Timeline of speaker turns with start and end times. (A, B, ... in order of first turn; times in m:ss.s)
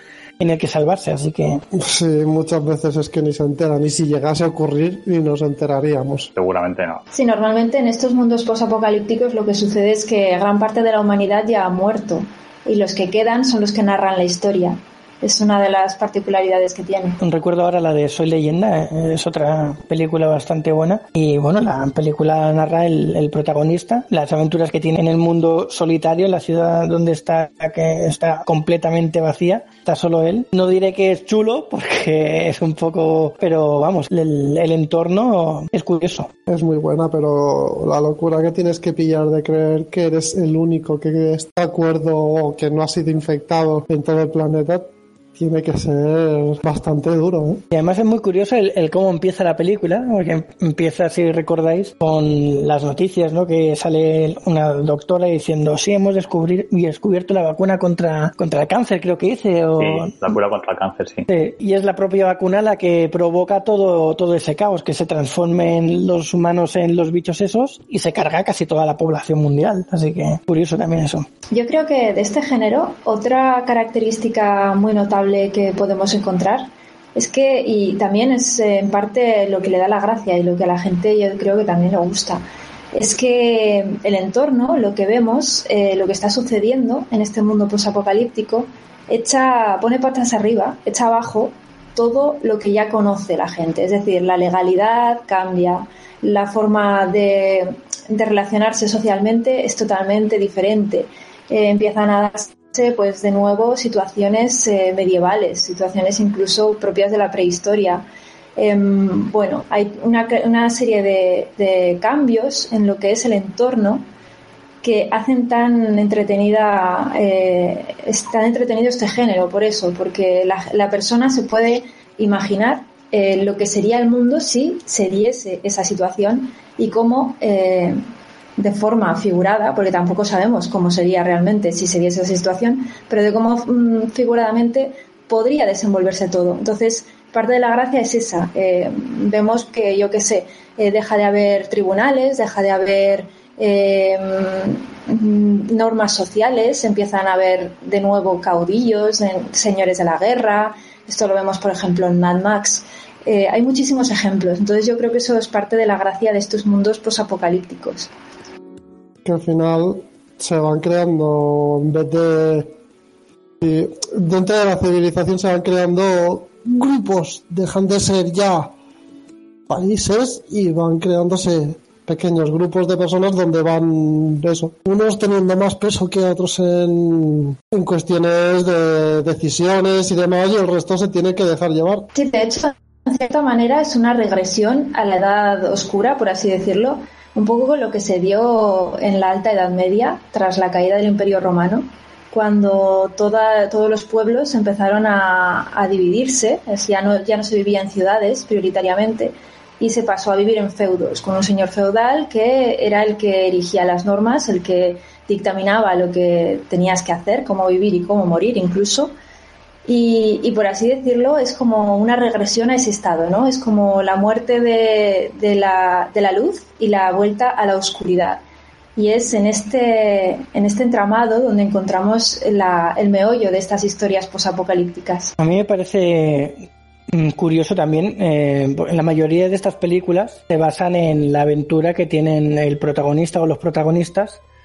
0:00.4-0:01.6 A
0:01.7-0:06.3 B
0:06.4-0:07.0 C
0:07.1-0:17.2 D
0:17.2-0:36.3 A
0:36.5-0:47.6 B
0:47.7-1:00.2 A
0:59.8-1:01.3 C
1:01.3-1:11.3 A
1:11.5-1:48.0 D
1:48.6-1:54.0 D
1:54.8-2:08.0 D
2:08.6-2:38.1 D
2:39.2-2:42.7 B
2:43.6-2:48.7 B
2:49.7-3:02.1 B
3:02.2-3:29.1 D
3:29.9-3:38.4 D
3:39.0-3:45.3 D
3:45.4-3:54.4 A